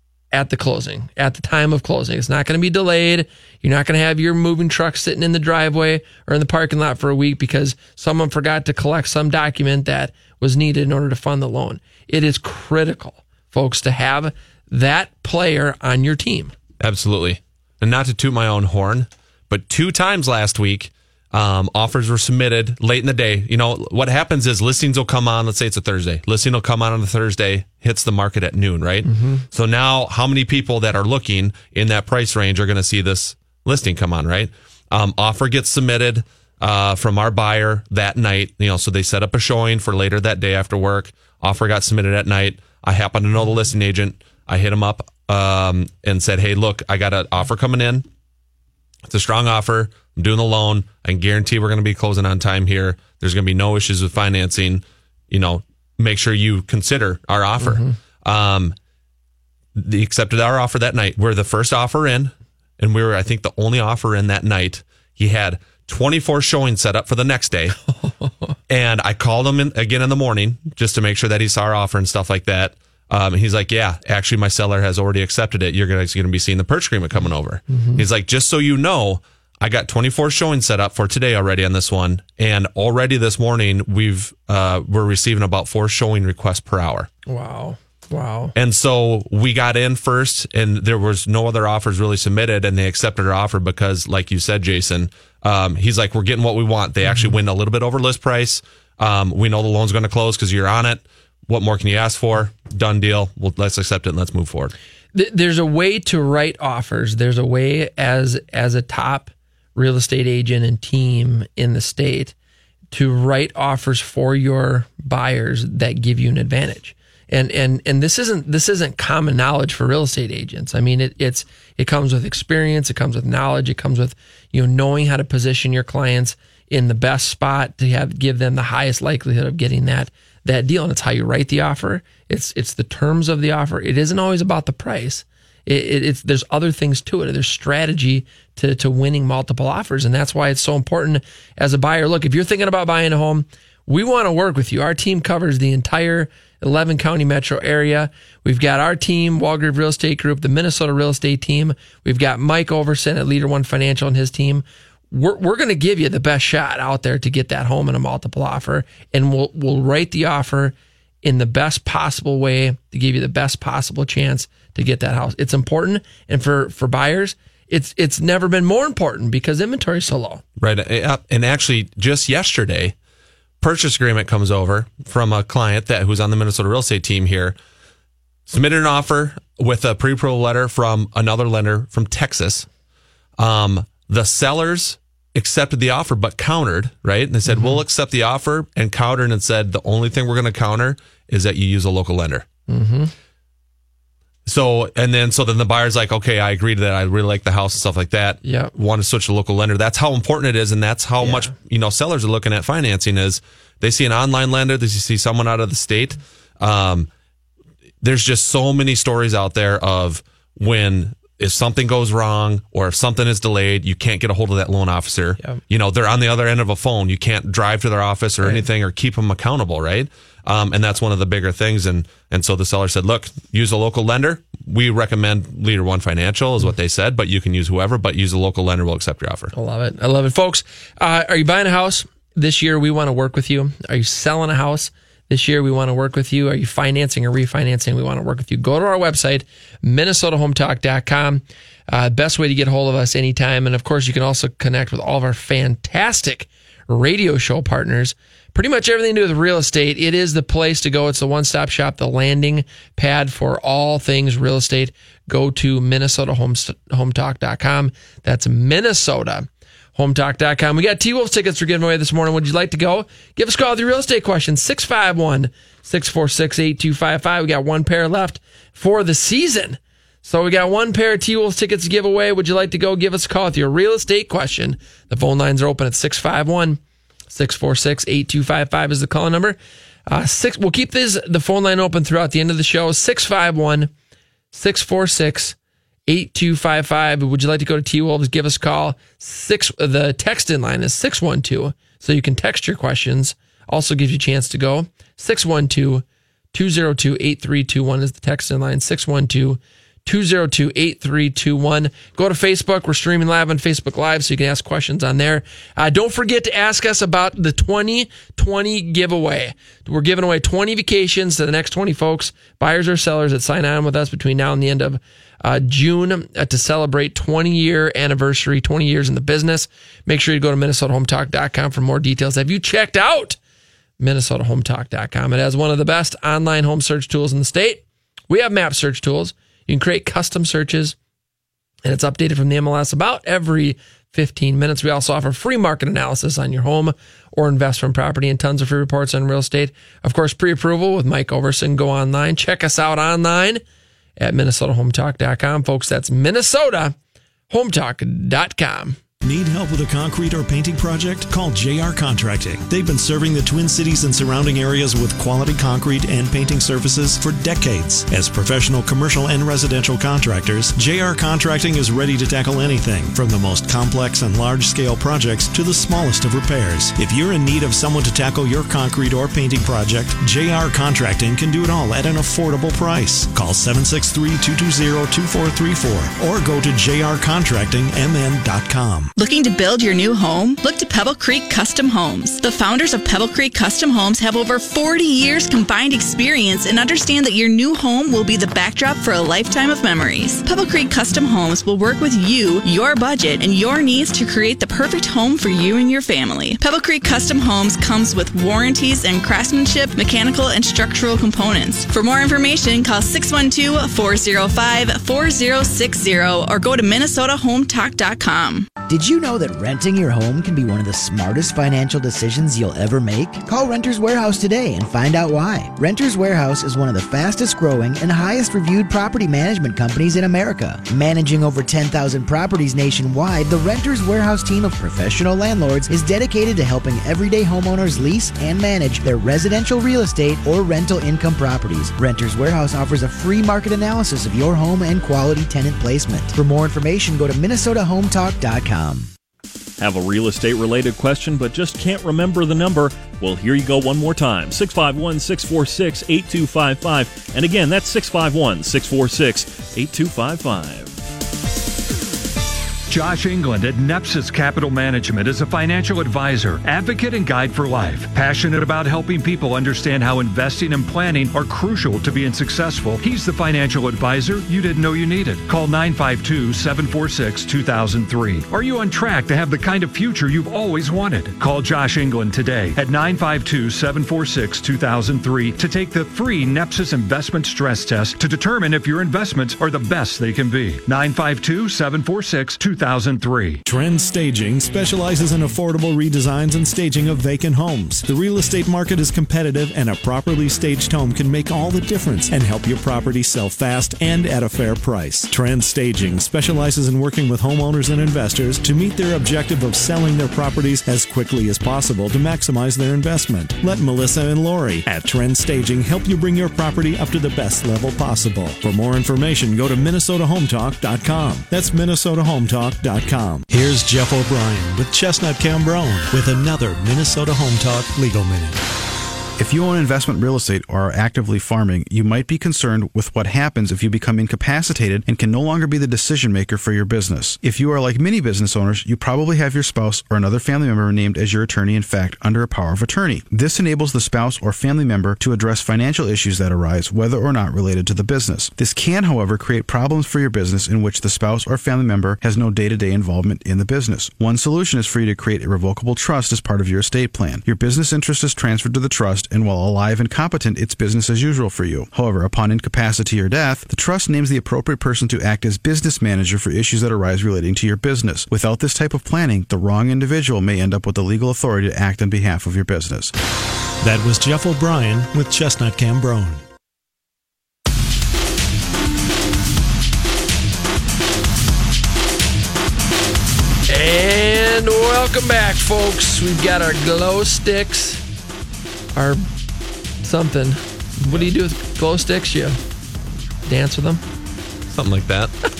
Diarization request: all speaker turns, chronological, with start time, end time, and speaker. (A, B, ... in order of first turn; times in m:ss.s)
0:00.3-0:16.5 A
0:16.8-0:48.1 B
0:29.0-0:29.4 A
0:49.0-0:58.8 B
0:57.6-0:58.0 A
0:59.8-1:07.8 B
1:08.0-1:08.5 A
1:08.7-1:27.1 B
1:17.7-1:18.0 A
1:27.2-1:28.5 A
1:28.5-1:44.7 B
1:37.0-1:37.3 A
1:45.1-1:52.3 A
1:52.9-2:50.4 A
2:50.6-2:52.9 B
2:53.6-2:57.6 B
2:58.5-3:02.7 B
3:03.4-3:12.4 B
3:07.5-3:07.8 A
3:12.7-3:13.1 A
3:14.4-3:27.1 B
3:18.4-3:18.7 A
3:21.2-3:21.5 A
3:28.0-3:49.5 B
3:49.5-4:36.8 A
4:37.3-4:39.6 A
4:40.1-4:43.9 A
4:44.5-4:45.6 A
4:46.1-5:23.4 A
5:24.0-5:31.0 A
5:31.8-5:43.6 A
5:44.2-5:46.9 A
5:47.5-5:49.0 A
5:49.2-6:19.1 C
6:19.2-6:48.7 D
6:48.9-7:19.1 E
7:19.8-7:31.0 F
7:32.9-8:03.6 G
8:03.6-8:38.6 C
8:39.4-9:23.1 H
9:23.8-9:26.4 C
9:33.7-9:38.0 A
9:38.9-9:39.2 A
9:40.0-9:42.6 A
9:43.4-9:44.0 A
9:44.7-9:45.3 B